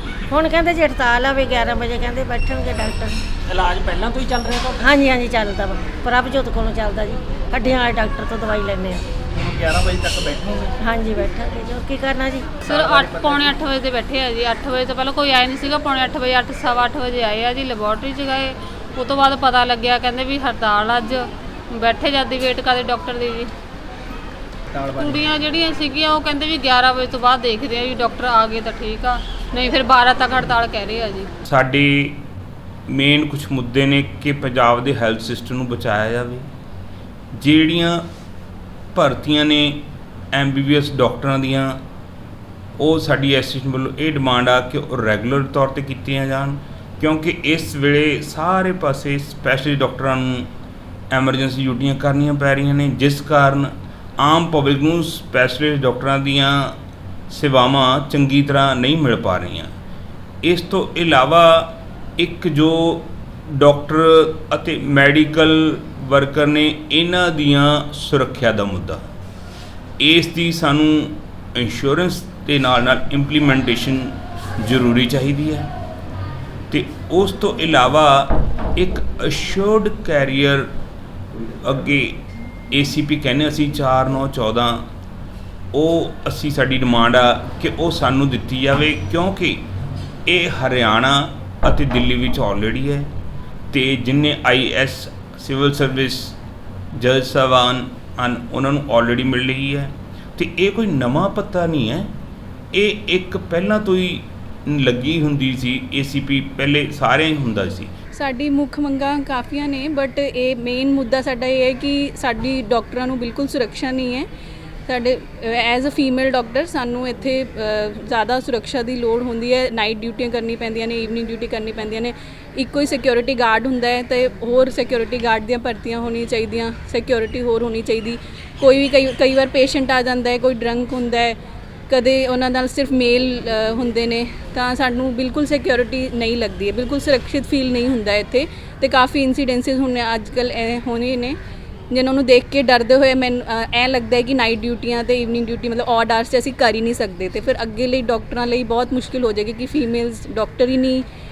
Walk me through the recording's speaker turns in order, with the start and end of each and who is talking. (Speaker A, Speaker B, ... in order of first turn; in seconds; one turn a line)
Speaker A: 0.3-3.2
Speaker A: 4.7-9.1
Speaker B: 9.3-10.8
Speaker A: 10.8-12.6
Speaker C: 12.6-23.5
Speaker B: 12.7-13.6
Speaker B: 24.7-25.3
Speaker C: 24.9-31.3
Speaker D: 31.4-32.2
Speaker D: 32.9-36.5
Speaker D: 37.4-38.1
Speaker D: 38.9-41.8
Speaker D: 42.8-50.5
Speaker D: 51.1-56.8
Speaker D: 57.3-59.7
Speaker D: 60.4-69.0
Speaker D: 70.0-75.7
Speaker D: 76.7-80.7
Speaker D: 81.4-84.8
Speaker D: 85.7-89.6
Speaker D: 90.3-93.1
Speaker D: 93.7-96.3
Speaker D: 97.0-102.1
Speaker D: 102.7-107.9
Speaker E: 108.1-114.3
Speaker E: 114.9-131.4
Speaker E: 131.9-141.3
Speaker E: 141.9-151.0